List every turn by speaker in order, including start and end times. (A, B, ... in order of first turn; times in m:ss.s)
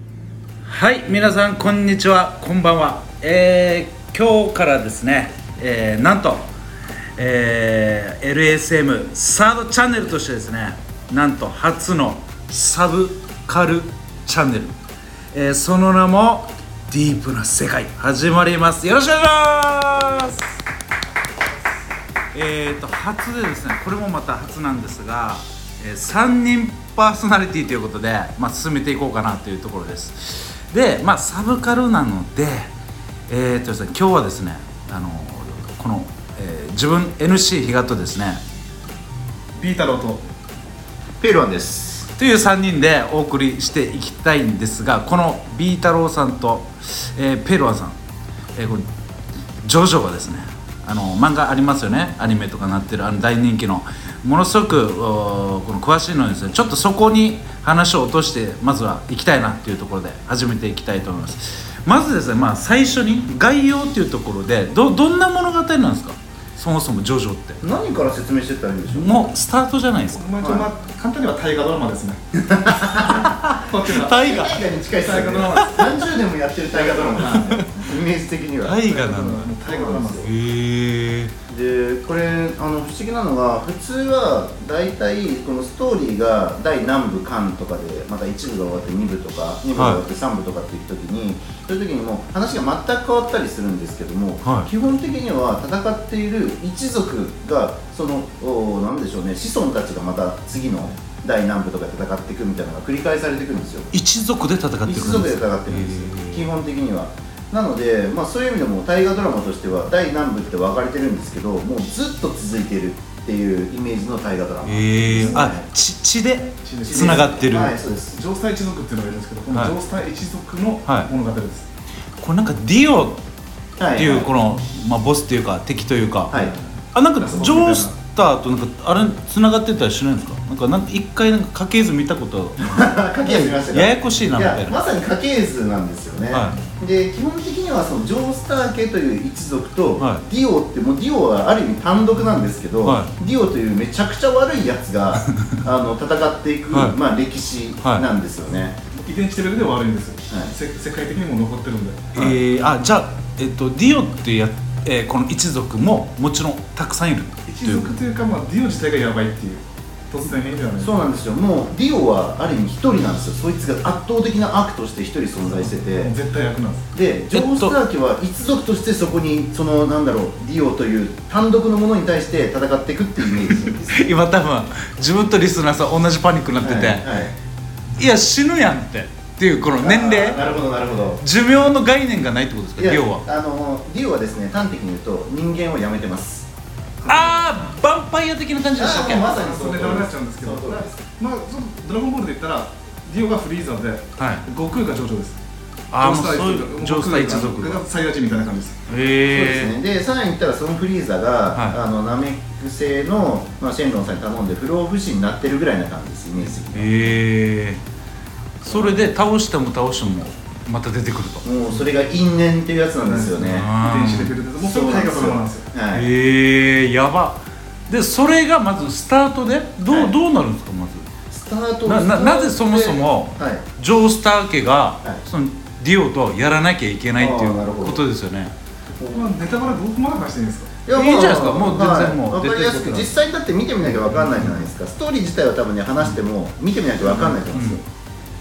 0:00.7-0:06.5 A
0:07.2-0:14.8 A
0:15.3-0:20.5 A
0:22.3-0:32.7 A
0:33.3-0:38.4 A
0:39.6-0:40.2 B
0:41.2-0:42.1 C
0:42.2-0:48.0 A
0:48.6-0:48.9 A
0:49.6-1:07.6 A
1:07.6-1:09.3 C
1:08.9-1:10.3 A
1:10.1-1:12.2 B
1:10.4-1:10.7 C
1:12.4-1:13.4 C
1:12.9-1:15.9 A
1:13.5-1:14.3 B
1:14.0-1:18.8 C
1:14.9-1:15.8 B
1:16.7-1:17.5 B
1:17.2-1:17.7 A
1:18.6-1:19.5 A
1:18.8-1:20.3 B
1:19.7-1:20.3 C
1:20.2-1:21.3 A
1:21.5-1:43.9 C
1:29.7-1:30.0 A
1:34.4-1:34.7 A
1:43.9-1:46.5 A
1:44.8-1:55.7 C
1:54.6-1:57.8 A
1:56.6-1:57.4 B
1:56.9-1:58.2 C
1:58.1-2:01.7 B
2:00.9-2:01.1 A
2:02.2-2:03.2 A
2:03.8-2:04.3 C
2:04.0-2:06.3 A
2:06.9-2:14.8 A
2:07.2-2:07.9 B
2:12.6-2:28.8 C
2:16.3-2:16.6 A
2:20.0-2:20.2 A
2:22.8-2:23.1 A
2:25.2-2:25.6 A
2:26.7-2:27.0 A
2:29.0-2:32.1 B
2:32.2-2:38.0 A
2:32.2-2:32.4 C
2:37.5-2:41.1 B
2:40.8-2:46.1 C
2:45.7-2:46.8 B
2:46.9-2:54.1 C
2:47.3-2:47.8 A
2:53.5-2:57.1 A
2:56.6-2:57.3 C
2:58.0-3:00.4 A
2:59.8-3:01.2 C
3:01.2-3:03.2 A
3:02.8-3:06.5 C
3:07.0-3:07.5 B
3:07.1-3:09.3 A
3:08.8-3:11.0 C
3:08.9-3:15.4 B
3:14.2-3:14.4 A
3:15.9-3:17.8 A
3:16.0-3:18.8 B
3:18.9-3:19.7 A
3:19.3-3:27.1 C
3:21.5-3:21.8 A
3:26.6-3:27.8 A
3:28.6-3:31.4 A
3:28.7-3:29.1 C
3:31.4-3:33.7 C
3:33.0-3:35.7 B
3:33.5-3:34.3 A
3:34.6-3:36.1 C
3:35.9-3:41.1 A
3:39.9-3:40.2 C
3:41.3-3:43.6 C
3:41.8-3:48.5 A
3:47.2-3:48.0 C
3:49.0-3:49.3 C
3:49.0-3:50.7 B
3:50.9-3:57.8 C
3:50.9-3:53.2 A
3:54.2-3:54.6 A
3:57.5-3:57.8 A